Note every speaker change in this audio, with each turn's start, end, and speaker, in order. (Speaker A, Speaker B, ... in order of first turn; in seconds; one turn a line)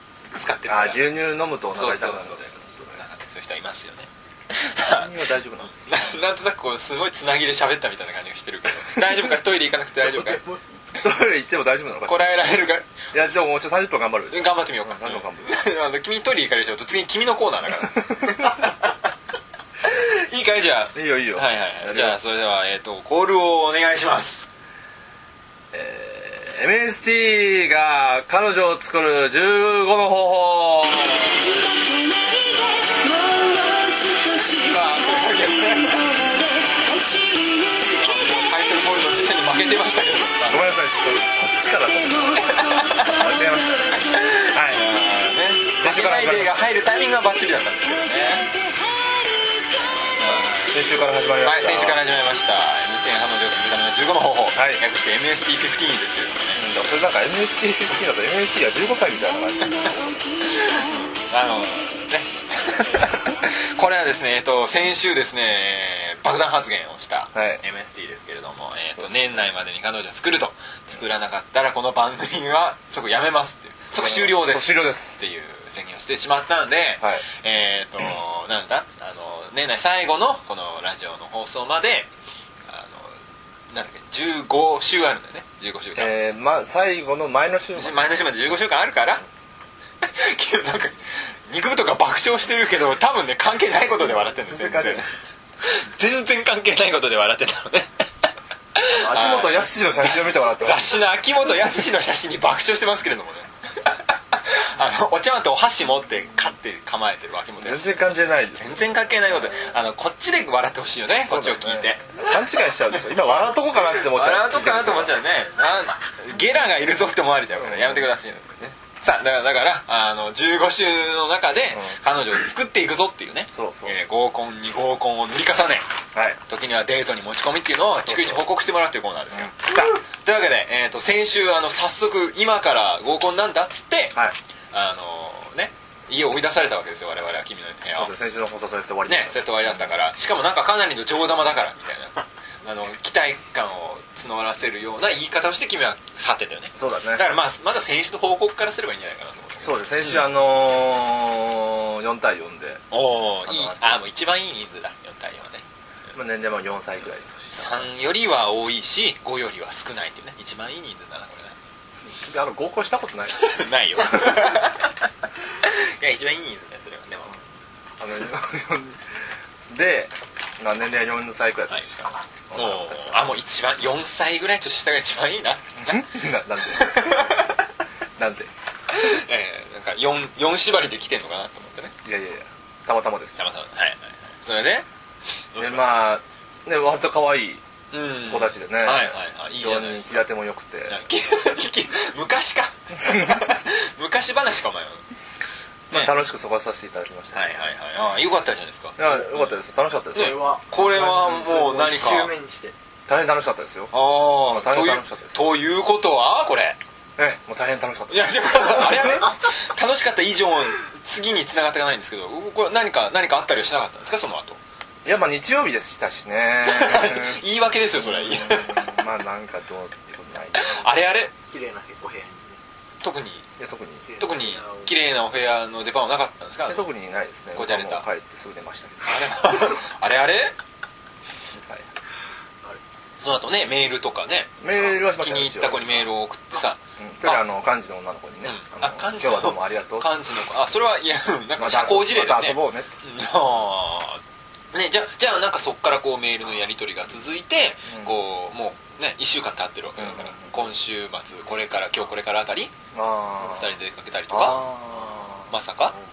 Speaker A: 0.3-10.4
Speaker B: 0.7-3.0
Speaker B: 4.8-6.0
Speaker C: 10.2-10.6
Speaker B: 11.0-15.6
Speaker A: 12.1-12.9
Speaker A: 14.3-18.9
Speaker B: 18.0-18.5
Speaker A: 19.8-24.5
Speaker B: 20.9-22.2
Speaker B: 25.7-31.3
Speaker A: 34.5-36.3
Speaker A: 37.9-40.8
Speaker B: 40.5-44.9
Speaker A: 42.5-43.2
Speaker A: 44.1-48.5
Speaker B: 45.7-46.7
Speaker A: 50.1-50.8
Speaker B: 50.2-52.0
Speaker A: 51.4-56.8
Speaker B: 54.6-54.8
Speaker B: 56.5-60.2
Speaker A: 60.4-82.1
Speaker B: 67.3-67.6
Speaker B: 74.0-75.2
Speaker A: 82.7-83.2
Speaker A: 83.7-86.2
Speaker B: 86.0-88.3
Speaker A: 87.8-89.2
Speaker A: 90.0-95.1
Speaker B: 94.0-95.1
Speaker A: 95.6-97.9
Speaker A: 98.8-112.4
Speaker B: 99.0-101.0
Speaker B: 107.6-108.9
Speaker B: 111.2-115.2
Speaker A: 113.0-125.8
Speaker B: 117.6-118.1
Speaker B: 123.5-123.9
Speaker B: 126.1-126.4
Speaker A: 126.5-134.2
Speaker B: 128.1-128.4
Speaker B: 129.3-129.9
Speaker A: 134.7-138.1
Speaker B: 137.9-139.9
Speaker A: 139.1-150.3
Speaker B: 146.8-147.3
Speaker B: 149.6-152.8
Speaker A: 152.9-155.6
Speaker B: 153.5-154.0
Speaker B: 156.1-157.9
Speaker A: 157.5-161.6
Speaker B: 162.1-164.6
Speaker A: 163.4-164.9
Speaker A: 165.6-167.4
Speaker B: 168.0-169.0
Speaker B: 169.7-173.3
Speaker A: 172.5-176.1
Speaker B: 175.8-177.3
Speaker A: 176.7-177.6
Speaker B: 178.2-178.5
Speaker A: 178.9-181.9
Speaker B: 182.1-183.4
Speaker A: 183.4-184.9
Speaker A: 185.5-186.1
Speaker B: 185.6-187.6
Speaker A: 187.9-190.3
Speaker B: 188.2-191.0
Speaker A: 190.9-195.0
Speaker B: 193.1-193.4
Speaker B: 195.9-197.7
Speaker A: 197.3-199.6
Speaker B: 199.0-200.4
Speaker A: 200.2-202.3
Speaker C: 200.2-202.7
Speaker B: 200.9-201.3
Speaker B: 203.1-205.4
Speaker A: 203.9-206.8
Speaker B: 207.2-209.3
Speaker A: 208.1-214.6
Speaker B: 215.1-217.4
Speaker A: 216.6-218.9
Speaker B: 217.9-220.9
Speaker A: 220.5-221.3
Speaker C: 221.5-222.6
Speaker A: 223.0-223.5
Speaker B: 223.6-224.1
Speaker C: 224.1-224.9
Speaker A: 224.2-226.9
Speaker B: 226.7-229.4
Speaker A: 227.6-228.0
Speaker A: 229.1-230.6
Speaker B: 231.6-231.9
Speaker A: 233.2-237.4
Speaker B: 234.6-236.1
Speaker B: 237.0-240.2
Speaker A: 238.4-244.2
Speaker B: 241.6-243.0
Speaker A: 244.7-252.7
Speaker B: 247.9-248.2
Speaker B: 250.0-250.5
Speaker B: 252.9-253.7
Speaker A: 253.4-254.7
Speaker B: 254.3-255.5
Speaker A: 255.5-255.9